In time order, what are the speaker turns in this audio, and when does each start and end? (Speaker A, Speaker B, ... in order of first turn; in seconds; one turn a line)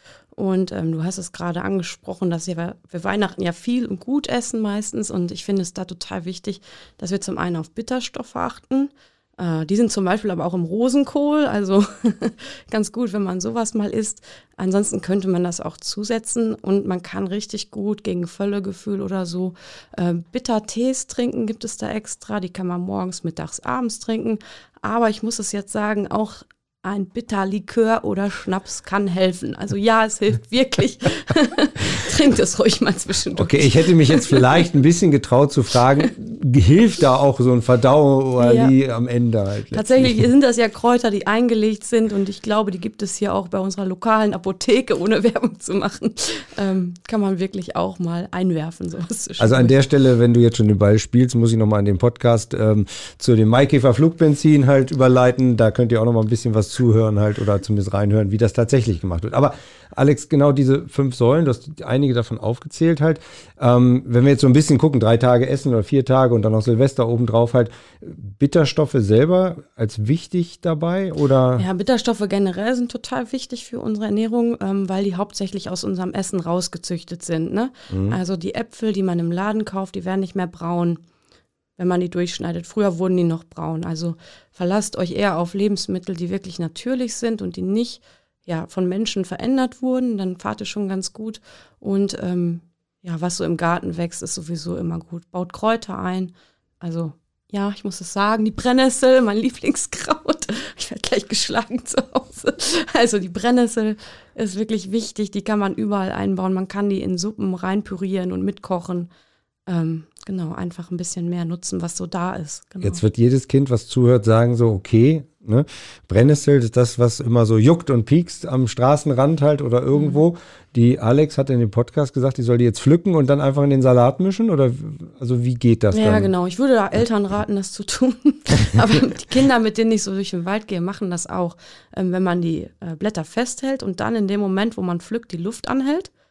Speaker A: 0.3-34.6
Speaker B: 33.4-40.3
Speaker A: 38.4-38.7
Speaker A: 39.7-49.8
Speaker B: 49.4-71.6
Speaker A: 71.5-81.0
Speaker B: 77.9-78.2
Speaker A: 81.8-109.1
Speaker A: 109.7-113.0
Speaker B: 112.8-126.3
Speaker A: 119.9-120.2
Speaker A: 125.9-136.1